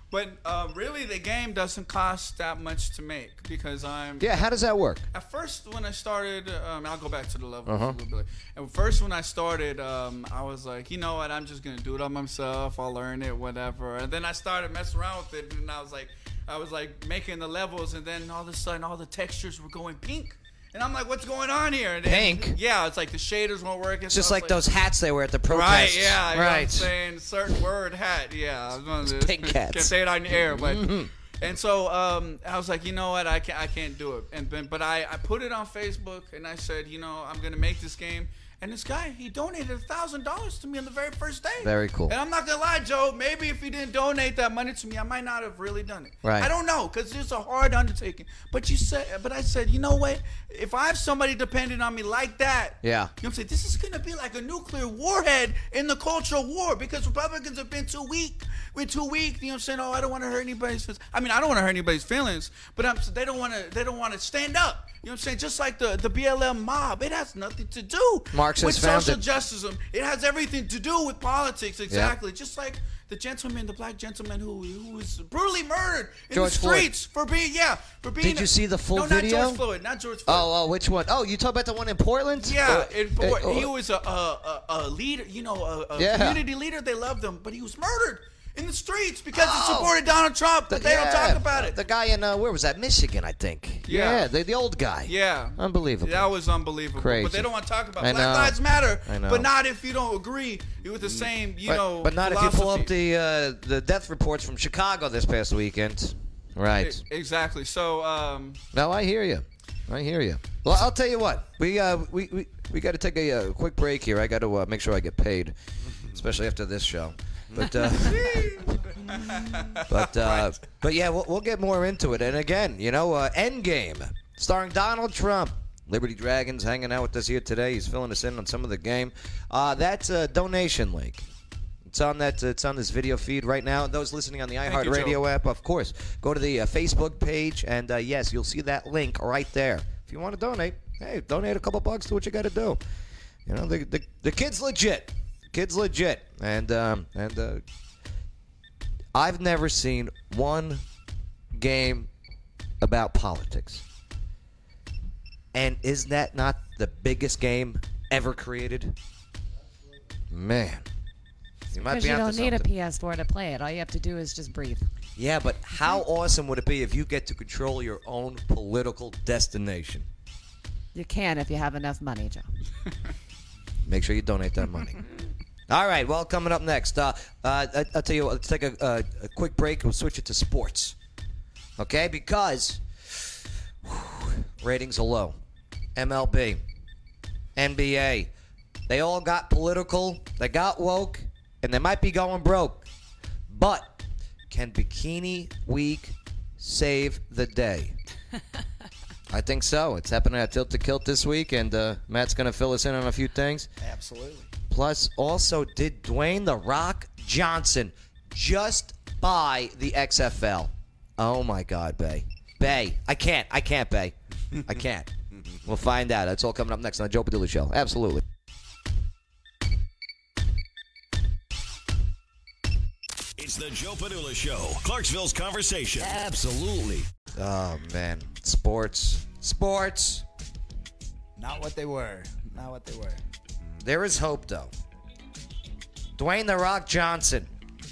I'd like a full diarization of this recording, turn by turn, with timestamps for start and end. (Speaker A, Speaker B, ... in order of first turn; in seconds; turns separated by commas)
Speaker A: 0.1-4.5, Speaker B: 4.2-5.0, Speaker A: 5.1-24.6, Speaker B: 7.7-8.0, Speaker B: 22.0-22.6, Speaker B: 24.1-26.9, Speaker A: 25.5-80.5, Speaker B: 29.0-31.1, Speaker B: 41.6-42.2, Speaker B: 46.2-46.5, Speaker B: 52.8-53.1, Speaker B: 68.3-69.2, Speaker B: 71.9-72.2, Speaker B: 76.3-76.9, Speaker B: 78.2-79.6, Speaker B: 80.3-83.7, Speaker A: 82.4-91.8, Speaker B: 86.0-86.4, Speaker B: 89.3-90.0, Speaker B: 90.7-96.3, Speaker A: 93.9-94.3, Speaker A: 95.1-102.9, Speaker B: 97.0-99.5, Speaker B: 101.7-107.0, Speaker A: 106.8-108.6, Speaker B: 108.7-115.5, Speaker B: 116.1-118.9, Speaker A: 117.8-120.6, Speaker B: 119.9-131.3, Speaker B: 131.9-142.8, Speaker A: 134.7-135.2, Speaker B: 143.5-147.6, Speaker B: 149.1-150.8, Speaker B: 151.5-152.1, Speaker B: 152.8-153.8, Speaker B: 155.5-158.9, Speaker B: 160.3-160.8, Speaker B: 161.7-162.7, Speaker C: 161.8-164.9, Speaker B: 165.2-170.1, Speaker C: 170.9-172.5, Speaker B: 173.8-175.0, Speaker B: 175.7-181.0, Speaker B: 181.8-185.4, Speaker B: 185.9-186.6, Speaker B: 187.6-188.3, Speaker B: 188.9-192.9, Speaker B: 193.5-198.0, Speaker B: 199.3-203.7, Speaker D: 203.8-204.5, Speaker B: 204.7-215.1, Speaker B: 215.7-218.2, Speaker E: 223.4-227.1, Speaker B: 226.0-226.7, Speaker B: 227.3-230.2, Speaker D: 231.4-233.2, Speaker B: 233.8-234.7, Speaker B: 236.2-237.5